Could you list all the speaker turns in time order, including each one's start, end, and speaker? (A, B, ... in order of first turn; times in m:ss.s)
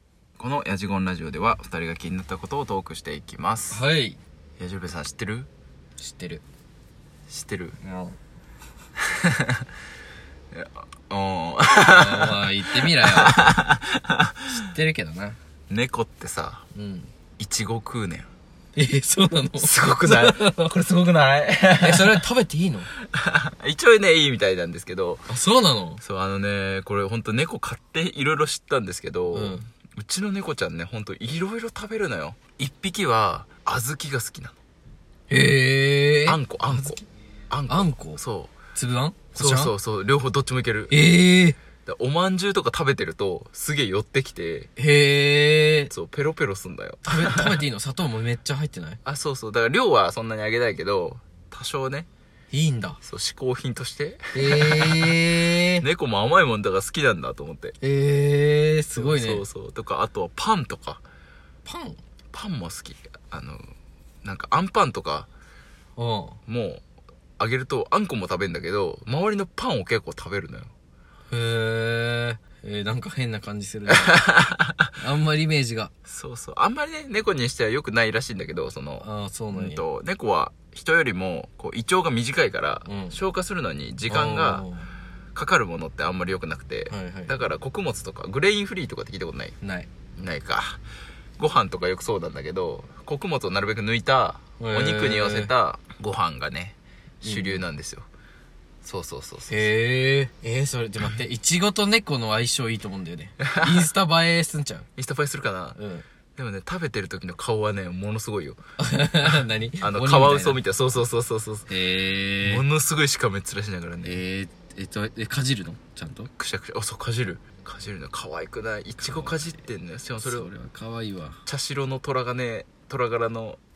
0:00.4-0:03.8 A
0:03.7-0:04.2 B
0:04.6-0:05.5 A
0:06.0-0:06.4 B
0:07.3-0:07.8 A
0:07.8-0:08.2 B
0:09.0-0:09.6 A
0:10.5-0:14.5 A
0:11.8-0:13.5 B
0:14.5-0:15.4 B
0:15.7-0:16.6 A
0:16.7-0:17.1 B
0:17.4-0:18.3 A
0:18.8-0:20.7 B
0:19.6-0:22.2 A
0:21.8-0:22.9 B
0:23.1-0:25.3 A
0:25.3-0:26.0 B
0:26.0-0:34.6 A
0:29.3-0:29.7 B
0:35.3-0:37.0 B
0:36.2-0:38.6 A
0:37.7-0:38.2 B
0:38.7-0:39.7 B
0:39.4-0:41.0 A
0:40.9-0:41.6 B
0:41.8-0:44.7 A
0:44.8-0:45.9 B
0:45.9-0:47.6 A
0:47.0-0:49.0 B
0:49.0-0:52.1 A
0:52.5-0:53.0 B
0:53.0-0:55.2 A
0:54.3-0:55.8 B
0:55.8-0:57.8 A
0:57.8-0:59.4 B
0:59.0-1:01.0 A
1:01.6-1:02.0 B
1:02.3-1:03.7 A
1:04.2-1:05.3 A
1:06.0-1:06.4 B
1:06.5-1:06.8 A
1:07.4-1:10.7 A
1:11.3-1:14.3 B
1:13.9-1:14.9 A
1:15.0-1:15.9 B
1:16.1-1:24.7 A
1:19.0-1:19.8 B
1:22.8-1:23.2 B
1:24.1-1:24.9 B
1:25.3-1:29.6 A
1:26.9-1:27.4 B
1:29.6-1:29.9 B
1:30.2-1:30.8 A
1:31.4-1:38.1 A
1:34.6-1:35.5 B
1:37.2-1:37.7 B
1:38.8-1:39.7 A
1:39.5-1:44.9 B
1:43.4-1:43.9 A
1:45.0-1:45.8 A
1:45.8-1:46.1 B
1:46.4-1:48.6 A
1:48.8-1:50.6 B
1:49.3-1:51.7 A
1:51.7-1:52.6 B
1:52.4-1:54.2 A
1:54.0-1:56.3 B
1:56.4-2:00.5 A
1:59.0-1:59.6 B
2:00.2-2:01.4 B
2:01.5-2:03.6 A